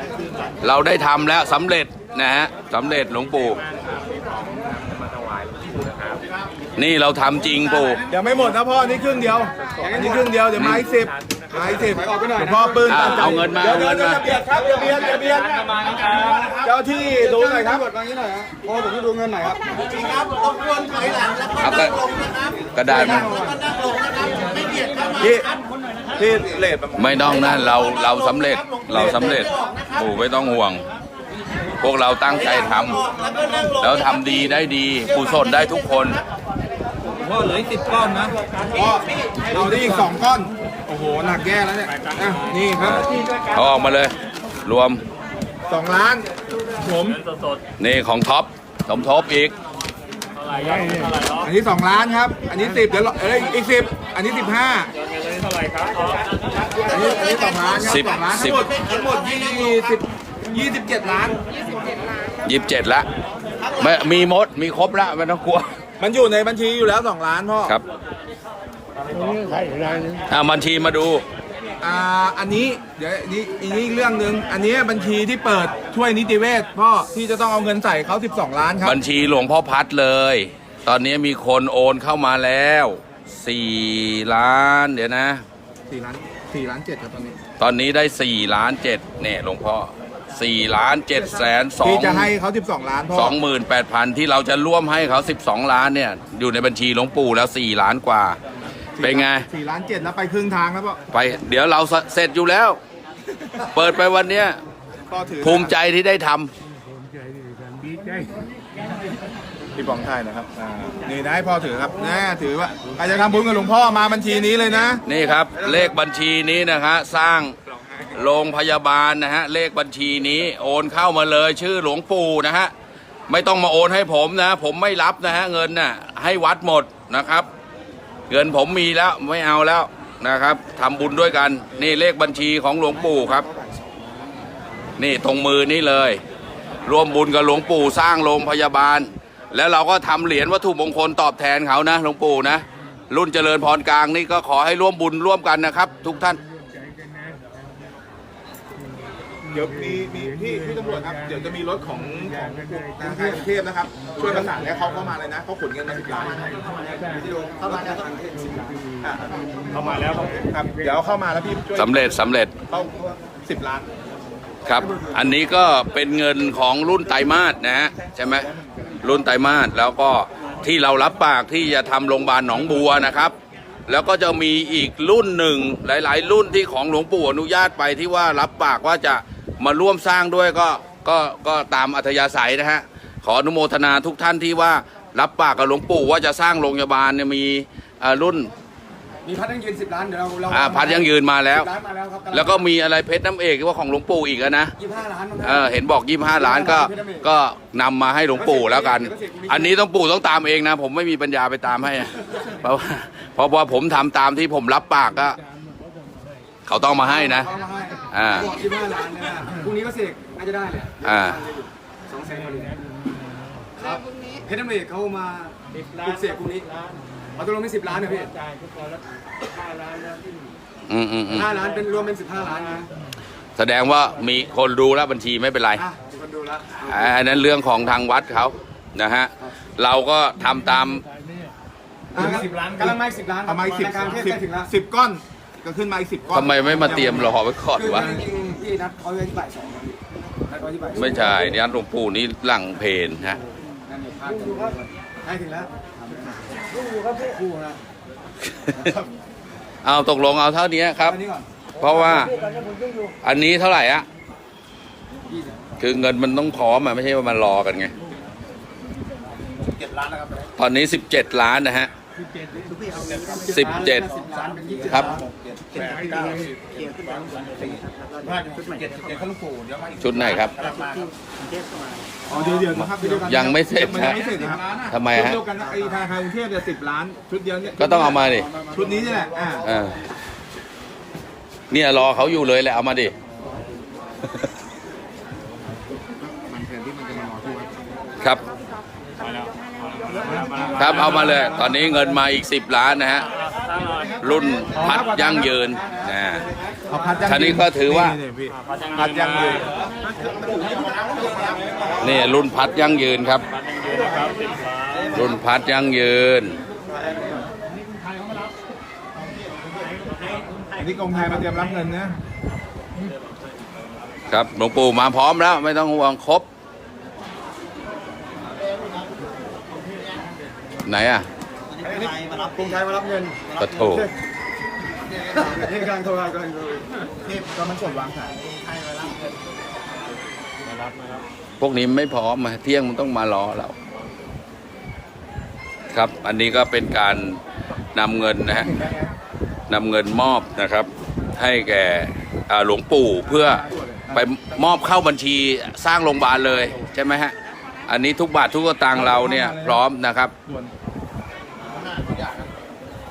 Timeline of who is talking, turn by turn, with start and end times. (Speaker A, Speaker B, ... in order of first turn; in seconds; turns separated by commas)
Speaker A: 0.6-3.6, Speaker B: 6.1-6.5, Speaker A: 6.8-8.0, Speaker B: 7.9-17.8, Speaker C: 9.8-10.4, Speaker A: 10.5-10.9, Speaker C: 11.5-19.8, Speaker A: 12.8-14.3, Speaker B: 19.8-21.1, Speaker D: 19.8-22.5, Speaker A: 21.6-22.1, Speaker A: 22.7-23.4, Speaker C: 22.8-23.7, Speaker D: 23.4-25.2, Speaker B: 25.1-25.5, Speaker B: 26.1-29.4, Speaker A: 26.9-30.9, Speaker A: 31.8-33.1, Speaker D: 33.1-33.7, Speaker A: 33.7-36.2, Speaker D: 37.3-38.3, Speaker B: 38.7-43.1, Speaker A: 42.8-45.0, Speaker B: 45.7-47.2, Speaker A: 47.8-49.5, Speaker E: 50.5-51.2, Speaker B: 51.3-54.9, Speaker B: 56.7-61.4, Speaker A: 57.8-58.7, Speaker A: 62.4-63.1, Speaker A: 63.7-65.8, Speaker B: 66.0-67.8, Speaker E: 69.1-70.2, Speaker A: 70.3-71.2, Speaker B: 71.8-79.0, Speaker A: 78.8-85.4, Speaker B: 85.9-87.4, Speaker A: 87.6-92.3, Speaker B: 91.8-93.4, Speaker A: 93.1-98.4, Speaker B: 99.0-101.0, Speaker A: 99.0-99.5, Speaker A: 101.1-102.8, Speaker A: 103.7-104.6, Speaker B: 105.1-105.8, Speaker A: 105.4-106.5, Speaker E: 106.8-108.5, Speaker B: 109.7-115.0, Speaker A: 115.0-117.5, Speaker B: 117.7-118.2, Speaker A: 118.1-122.7, Speaker A: 123.3-127.5, Speaker A: 128.3-133.4, Speaker B: 131.8-132.4, Speaker C: 133.1-134.0, Speaker A: 135.0-136.2, Speaker A: 136.8-146.4, Speaker E: 146.0-147.6, Speaker E: 149.4-153.1, Speaker B: 149.5-156.6, Speaker C: 153.0-153.5, Speaker C: 154.2-154.5, Speaker C: 156.6-158.8, Speaker E: 156.9-157.3, Speaker D: 157.6-158.1, Speaker E: 158.6-160.5, Speaker B: 159.0-163.9, Speaker C: 159.9-160.4, Speaker A: 161.8-162.5, Speaker A: 164.6-168.5, Speaker C: 164.7-165.4, Speaker B: 168.0-169.1, Speaker A: 169.0-173.3, Speaker A: 173.9-188.5, Speaker C: 189.2-192.7, Speaker A: 190.5-191.7, Speaker A: 192.3-194.7, Speaker C: 194.8-197.3, Speaker A: 195.4-205.4, Speaker C: 198.3-199.8, Speaker E: 205.2-206.5, Speaker A: 206.7-207.5, Speaker C: 207.0-212.7, Speaker A: 208.1-208.5, Speaker A: 211.0-211.4, Speaker E: 212.3-213.7, Speaker C: 213.8-216.7, Speaker C: 217.3-218.3, Speaker E: 218.1-220.4, Speaker A: 220.9-221.6, Speaker C: 221.3-222.9, Speaker A: 223.6-225.8, Speaker C: 225.8-227.2, Speaker A: 226.8-231.0, Speaker E: 230.4-231.5, Speaker C: 232.1-234.7, Speaker B: 232.1-237.4, Speaker E: 232.4-232.8, Speaker A: 236.3-238.2, Speaker C: 236.8-241.5, Speaker A: 240.9-243.4, Speaker C: 243.8-246.6, Speaker C: 247.1-247.8, Speaker C: 248.7-249.1, Speaker A: 249.8-251.2, Speaker C: 251.0-251.5, Speaker A: 251.8-252.3, Speaker A: 253.2-254.1, Speaker C: 255.3-255.8, Speaker A: 255.8-257.9, Speaker A: 260.6-261.9, Speaker E: 262.2-263.1, Speaker D: 262.9-265.2, Speaker C: 263.3-265.2, Speaker A: 263.4-264.1, Speaker A: 264.9-265.1, Speaker B: 265.2-266.7, Speaker E: 265.8-266.6, Speaker D: 266.6-269.3, Speaker B: 268.4-270.4, Speaker A: 270.0-270.6, Speaker D: 270.6-272.0, Speaker B: 272.3-279.7, Speaker C: 272.3-274.5, Speaker A: 273.2-274.4, Speaker A: 274.9-275.4, Speaker A: 277.8-278.5, Speaker D: 278.6-279.6, Speaker A: 279.6-280.0, Speaker A: 281.7-283.1, Speaker B: 286.2-287.8, Speaker B: 290.2-291.4, Speaker C: 290.2-292.0, Speaker A: 290.7-293.3, Speaker C: 294.0-297.2, Speaker A: 294.2-296.5, Speaker B: 296.9-299.7, Speaker A: 297.2-298.2, Speaker C: 299.6-302.0, Speaker D: 300.2-302.0, Speaker A: 302.0-303.4, Speaker D: 303.9-305.3, Speaker A: 305.1-306.6, Speaker D: 307.0-307.4, Speaker B: 310.7-312.2, Speaker A: 314.3-316.5, Speaker A: 320.8-321.3, Speaker D: 321.8-322.8, Speaker C: 321.8-324.1, Speaker D: 323.6-323.8, Speaker A: 323.6-324.1, Speaker C: 325.2-327.1, Speaker B: 327.5-328.5, Speaker D: 328.5-329.2, Speaker A: 331.6-333.7, Speaker A: 335.9-337.4, Speaker A: 337.9-338.7, Speaker B: 338.5-339.2, Speaker A: 339.7-347.3, Speaker B: 343.2-344.8, Speaker A: 347.9-350.3, Speaker B: 348.9-349.9, Speaker B: 350.4-350.7, Speaker D: 351.8-352.2